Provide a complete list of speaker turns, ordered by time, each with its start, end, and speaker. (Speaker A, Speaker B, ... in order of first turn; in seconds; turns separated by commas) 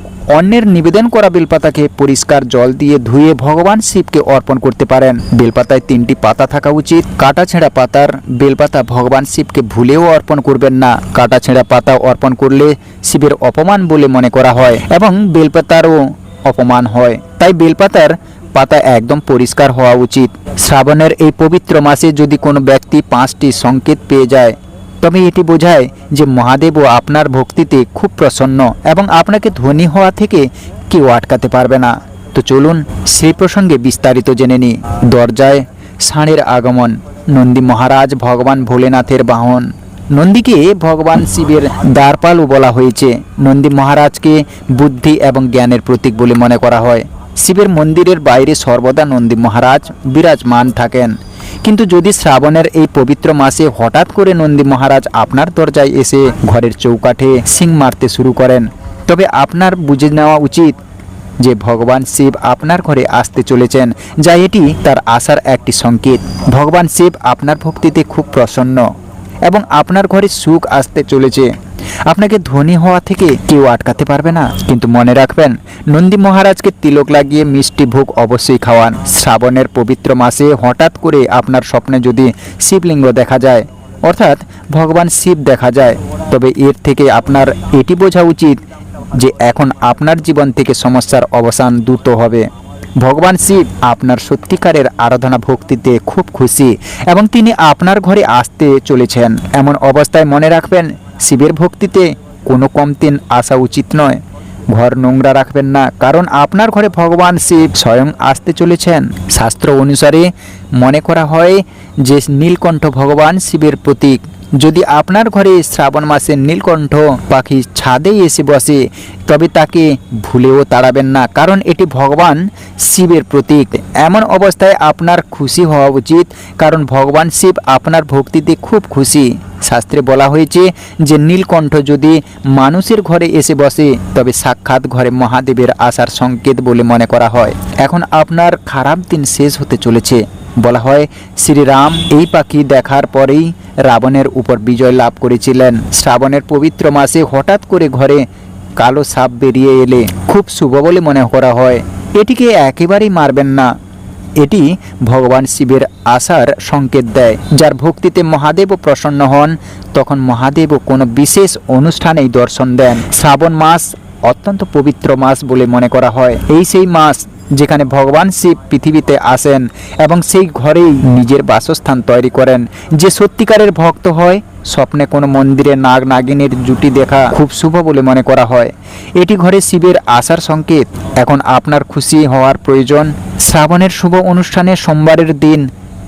Speaker A: 0.3-60.8, Speaker A: 61.4-68.9, Speaker A: 69.5-71.5, Speaker A: 72.1-88.6, Speaker A: 89.1-148.2, Speaker A: 148.8-153.7, Speaker A: 154.4-185.7